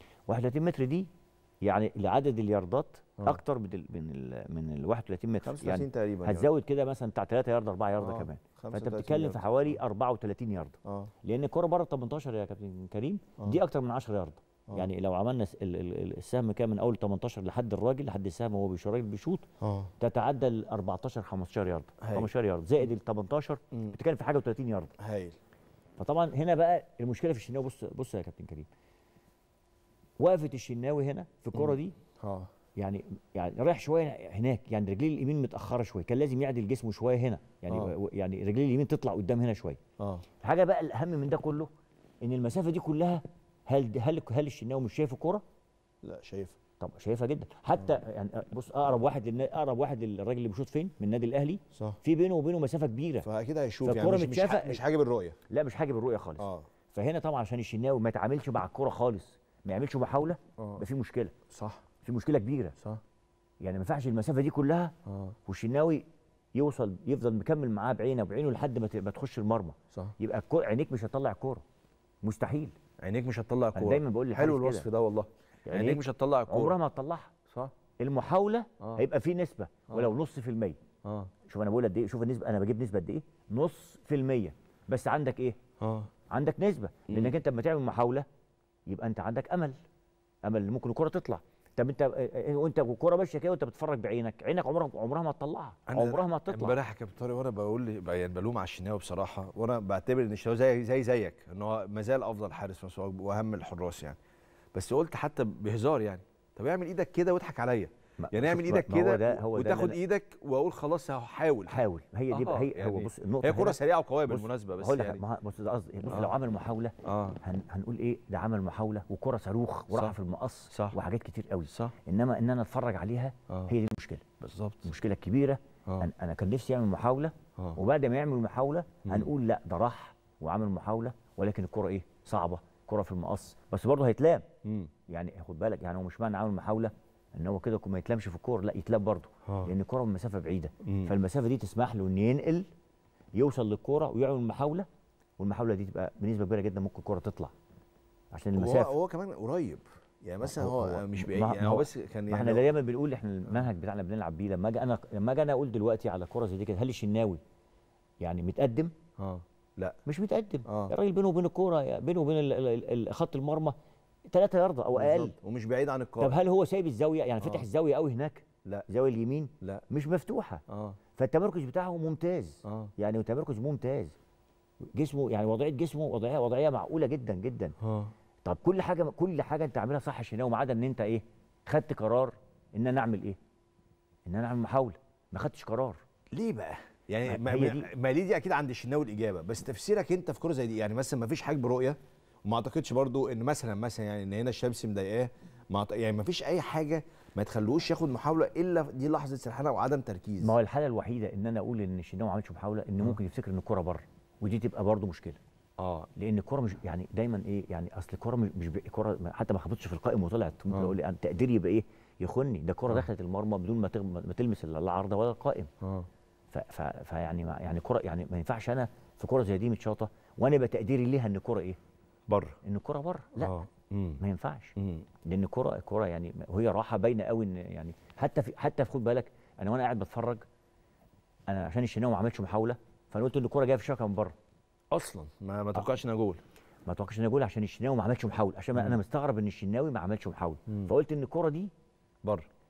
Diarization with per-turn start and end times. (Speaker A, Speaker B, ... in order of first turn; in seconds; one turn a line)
Speaker A: 0.3-1.1
Speaker A: 1.6-19.4
Speaker B: 5.4-6.5
Speaker B: 8.0-9.8
Speaker B: 10.8-11.1
Speaker B: 19.6-19.9
Speaker A: 20.0-24.9
Speaker B: 22.0-22.3
Speaker B: 25.0-25.4
Speaker A: 26.0-28.7
Speaker A: 30.2-31.9
Speaker B: 31.5-32.5
Speaker A: 32.8-39.8
Speaker B: 37.7-37.9
Speaker B: 40.0-40.2
Speaker A: 40.4-41.7
Speaker A: 42.2-45.4
Speaker B: 46.0-46.5
Speaker A: 46.8-53.2
Speaker B: 53.2-55.4
Speaker A: 53.8-54.8
Speaker A: 55.5-61.3
Speaker B: 56.4-56.7
Speaker B: 60.6-60.8
Speaker B: 61.5-61.8
Speaker A: 62.0-62.8
Speaker A: 63.6-64.9
Speaker B: 65.1-65.3
Speaker A: 65.5-71.6
Speaker A: 72.2-72.8
Speaker B: 73.0-76.8
Speaker A: 73.7-74.9
Speaker A: 75.7-77.3
Speaker A: 78.0-80.8
Speaker B: 81.0-81.3
Speaker A: 81.5-85.6
Speaker B: 85.8-86.1
Speaker A: 86.3-88.2
Speaker B: 87.1-87.3
Speaker A: 88.9-89.8
Speaker A: 90.4-96.8
Speaker B: 95.9-104.2
Speaker B: 104.7-115.2
Speaker A: 108.2-110.0
Speaker A: 111.7-124.2
Speaker B: 116.1-116.3
Speaker B: 117.0-117.4
Speaker B: 120.7-121.0
Speaker B: 121.7-121.9
Speaker B: 124.4-124.9
Speaker A: 124.8-134.4
Speaker B: 134.6-134.9
Speaker A: 135.1-142.7
Speaker B: 139.5-139.7
Speaker B: 140.8-141.1
Speaker A: 143.3-144.9
Speaker A: 145.4-147.5
Speaker A: 148.3-148.9
Speaker B: 148.6-152.7
Speaker A: 150.4-157.4
Speaker A: 158.2-158.9
Speaker B: 159.2-160.0
Speaker A: 160.1-163.7
Speaker B: 160.7-160.9
Speaker A: 164.3-165.3
Speaker B: 164.9-166.4
Speaker A: 166.2-170.6
Speaker B: 170.7-171.0
Speaker A: 171.2-174.1
Speaker B: 172.6-172.9
Speaker A: 174.9-177.7
Speaker B: 177.8-178.1
Speaker A: 178.4-183.4
Speaker A: 184.2-186.0
Speaker B: 186.3-200.5
Speaker A: 187.2-187.9
Speaker A: 200.4-205.4
Speaker B: 205.8-206.1
Speaker A: 206.2-215.7
Speaker B: 210.7-210.9
Speaker B: 215.8-216.1
Speaker A: 216.5-221.8
Speaker B: 222.3-222.6
Speaker A: 222.6-223.6
Speaker B: 223.3-224.2
Speaker A: 224.2-230.4
Speaker B: 224.8-225.1
Speaker A: 231.5-234.3
Speaker B: 234.9-236.4
Speaker A: 236.8-241.7
Speaker B: 238.7-239.0